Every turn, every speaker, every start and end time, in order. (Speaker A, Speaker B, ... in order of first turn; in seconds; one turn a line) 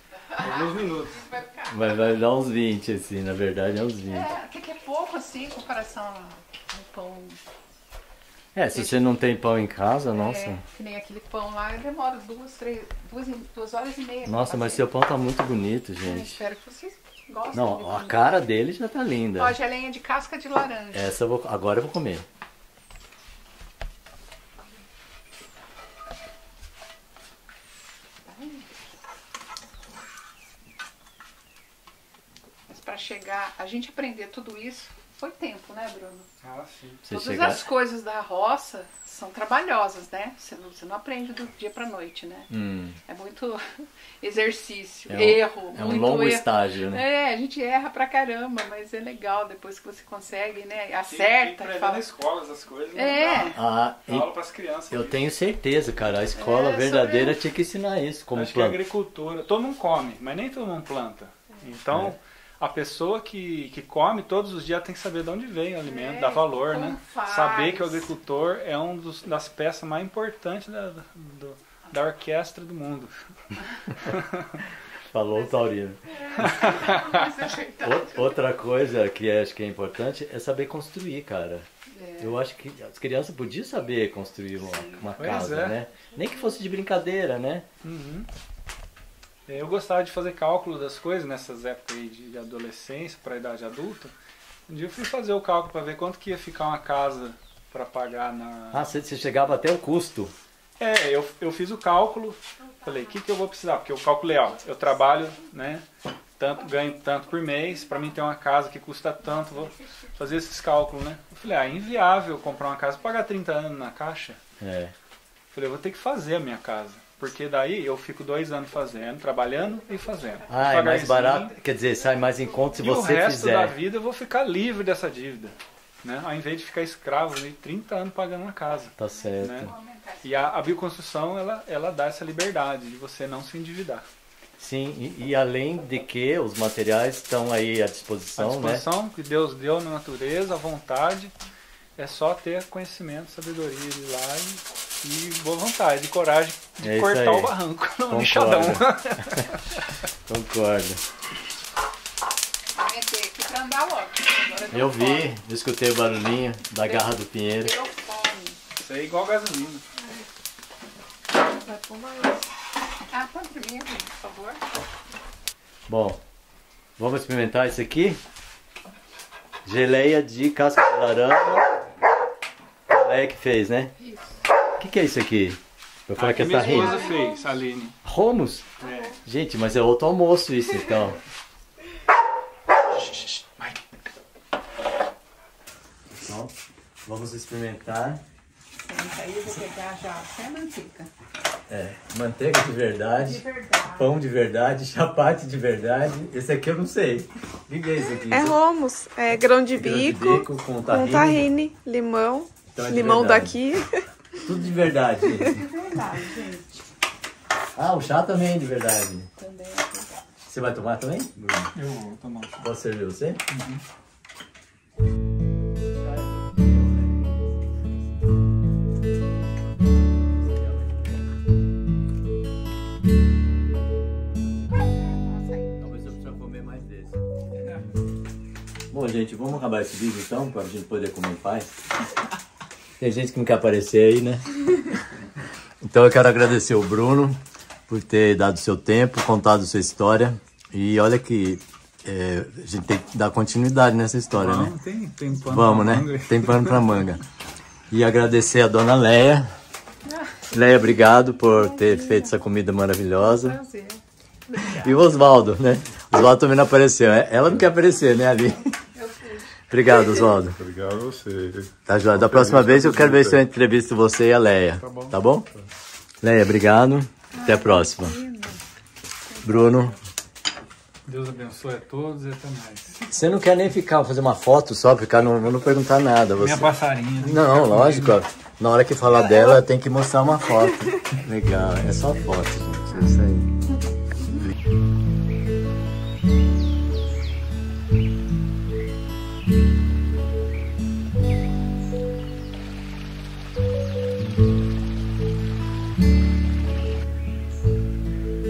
Speaker A: 0.3-2.0
Speaker B: 0.3-1.3
Speaker C: 1.7-4.3
Speaker A: 4.0-7.4
Speaker C: 8.5-10.6
Speaker A: 8.7-9.1
Speaker A: 10.1-14.9
Speaker C: 14.2-16.4
Speaker A: 16.0-18.4
Speaker C: 17.5-19.6
Speaker A: 19.4-21.1
Speaker C: 20.9-22.2
Speaker A: 28.2-28.8
Speaker A: 32.7-36.3
Speaker B: 36.4-37.0
Speaker C: 37.0-37.6
Speaker A: 37.1-42.5
Speaker C: 42.5-43.0
Speaker A: 43.0-52.0
Speaker C: 45.1-47.0
Speaker B: 51.1-55.2
Speaker A: 52.9-53.5
Speaker C: 53.5-54.3
Speaker C: 54.9-58.8
Speaker A: 56.3-57.4
Speaker B: 58.3-74.6
Speaker A: 65.9-68.1
Speaker C: 75.1-76.7
Speaker A: 76.1-78.3
Speaker B: 76.4-77.3
Speaker C: 77.8-81.7
Speaker A: 81.9-82.3
Speaker C: 82.2-87.7
Speaker A: 84.6-85.1
Speaker B: 85.2-85.8
Speaker B: 87.8-88.3
Speaker B: 89.5-94.1
Speaker B: 94.7-98.9
Speaker C: 98.7-100.3
Speaker B: 100.8-105.8
Speaker A: 102.6-103.2
Speaker B: 106.4-114.4
Speaker C: 114.6-114.9
Speaker B: 115.5-121.5
Speaker C: 120.5-123.7
Speaker B: 122.8-129.7
Speaker C: 129.0-129.7
Speaker A: 129.0-130.4
Speaker B: 130.2-134.1
Speaker C: 134.6-138.8
Speaker B: 138.3-141.3
Speaker B: 142.0-149.9
Speaker C: 146.8-147.5
Speaker C: 148.1-149.4
Speaker C: 150.2-151.0
Speaker A: 152.7-155.3
Speaker C: 154.7-157.7
Speaker A: 156.8-158.6
Speaker B: 158.8-159.8
Speaker A: 161.4-162.4
Speaker A: 163.1-164.6
Speaker C: 165.9-166.2
Speaker C: 167.0-168.2
Speaker C: 169.6-171.7
Speaker C: 172.9-173.9
Speaker C: 174.8-177.1
Speaker B: 176.1-178.0
Speaker A: 176.4-177.3
Speaker C: 178.0-178.7
Speaker B: 178.8-179.2
Speaker C: 179.2-181.2
Speaker B: 182.9-183.8
Speaker C: 186.1-186.5
Speaker C: 187.0-188.2
Speaker A: 188.8-191.1
Speaker C: 191.7-198.6
Speaker A: 193.2-194.1
Speaker D: 198.3-204.0
Speaker C: 199.7-201.5
Speaker C: 202.7-203.6
Speaker C: 204.4-205.6
Speaker A: 205.4-206.7
Speaker C: 207.8-209.3
Speaker A: 209.4-210.1
Speaker C: 210.4-211.7
Speaker B: 211.6-212.7
Speaker C: 212.6-213.4
Speaker B: 213.5-213.8
Speaker C: 216.2-217.4
Speaker C: 220.5-221.0
Speaker A: 224.8-226.0
Speaker C: 225.8-227.2
Speaker C: 228.9-231.8
Speaker C: 233.0-234.9
Speaker C: 235.8-244.7
Speaker B: 244.3-246.9
Speaker C: 245.4-247.2
Speaker C: 247.9-249.5
Speaker A: 250.1-252.3
Speaker C: 250.5-253.6
Speaker A: 253.2-255.0
Speaker C: 254.7-258.7
Speaker A: 258.9-259.6
Speaker C: 259.7-260.6
Speaker B: 260.7-261.7
Speaker C: 261.9-265.5
Speaker B: 264.8-265.1
Speaker C: 266.2-268.1
Speaker A: 267.3-268.6
Speaker A: 269.3-269.8
Speaker C: 269.4-269.9
Speaker B: 271.1-273.1
Speaker C: 273.1-283.5
Speaker B: 276.4-278.2